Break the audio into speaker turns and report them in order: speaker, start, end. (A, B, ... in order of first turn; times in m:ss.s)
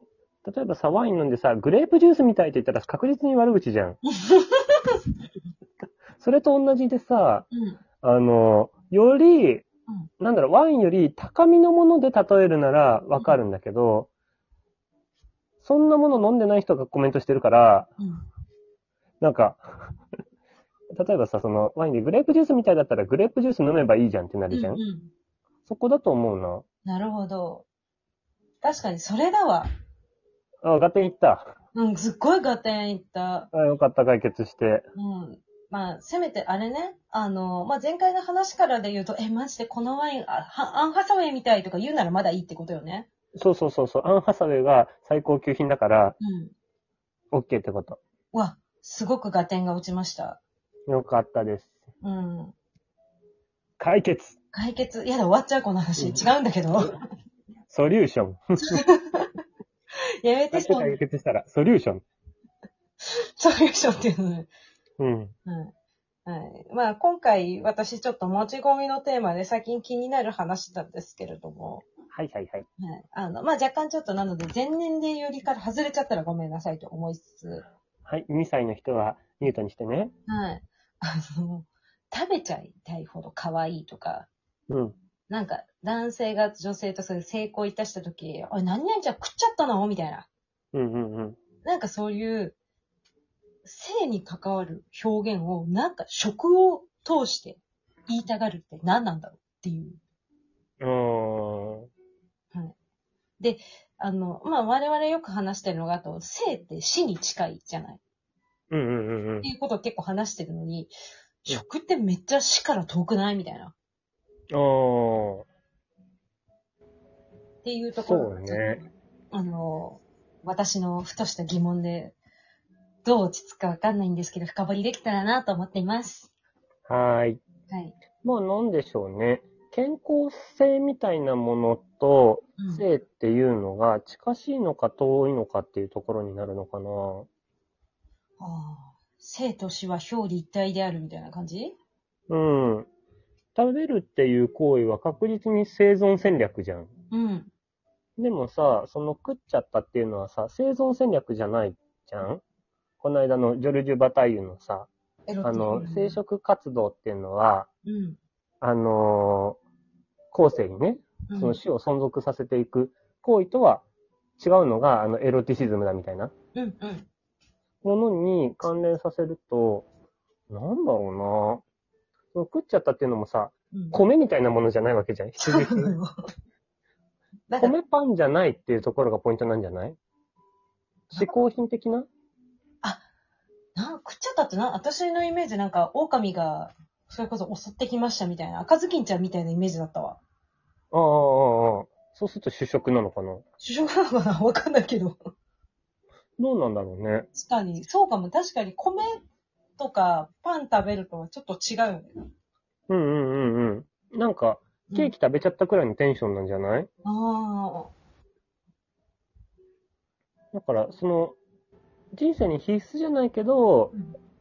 0:00.4-0:04.0 A
0:04.1-0:05.0 B
0:06.2-0:07.5 A
0:07.5-0:07.8 B
0:08.0-0:09.6 A
0:10.2-0:14.1 A
0:15.6-0:17.9 A
0:18.0-0:18.2 B
0:19.2-0:19.9 A
0:21.0-0:24.8 A
0:24.5-0:25.1 B
0:25.6-0:26.6 A
0:26.8-0:27.6 B
0:28.6-0:29.7 B
0:30.6-0:31.5 A
0:31.7-0:33.5 B
0:33.5-0:34.8 A
0:34.9-0:43.1 B
0:43.4-0:46.2 A
0:46.2-0:46.5 B
0:47.3-0:48.0 A
0:48.3-0:50.4 B
0:50.9-0:51.8 A
0:52.0-0:52.5 B
0:53.8-0:54.4 A
0:54.5-0:57.0 B
0:56.0-0:56.2 A
0:57.7-0:58.8 A
0:58.6-0:59.3 B
1:00.2-1:01.0 B
1:00.5-1:02.0 A
1:03.0-1:04.5 B
1:05.0-1:05.3 A
1:05.4-1:05.7 B
1:06.2-1:11.9 B
1:12.1-1:12.6 A
1:12.8-1:17.6 B
1:18.0-1:20.1 A
1:20.3-1:24.3 B
1:24.7-1:25.0 A
1:25.3-1:30.3 B
1:30.7-1:31.4 A
1:31.6-1:32.6 B
1:33.6-1:40.0 B
1:40.8-1:41.9 A
1:43.4-1:48.0 B
1:48.7-1:49.5 A
1:49.4-1:50.9 B
1:51.4-1:53.7 B
1:54.5-1:55.4 A
1:57.6-2:02.2 B
1:58.0-1:58.8 A
2:03.0-2:06.3 B
2:06.9-2:07.4 A
2:07.7-2:08.0 B
2:08.2-2:17.3 A
2:12.6-2:12.8 B
2:18.4-2:21.8 B
2:22.3-2:22.9 A
2:23.6-2:26.9 A
2:27.1-2:27.5 B
2:28.2-2:32.4 A
2:33.0-2:34.9 A
2:35.3-2:36.2 B
2:35.4-2:37.7 A
2:37.8-2:38.2 B
2:38.6-2:39.6 A
2:40.3-2:43.8 A
2:41.3-2:41.6 B
2:44.4-2:46.3 A
2:46.5-2:47.1 B
2:47.8-2:49.8 A
2:50.5-2:51.6 A
2:52.3-2:55.9 A
2:53.7-2:54.0 B
2:55.4-2:56.1 B
2:57.5-2:57.7 B
2:57.6-3:00.0 A
3:01.2-3:02.1 A
3:03.8-3:10.2 B
3:10.9-3:13.4 A
3:13.6-3:15.2 B
3:16.4-3:17.3 A
3:17.3-3:19.2 B
3:19.8-3:22.2 B
3:22.9-3:26.9 A
3:27.0-3:27.9 B
3:30.5-3:31.4 A
3:32.1-3:33.9 A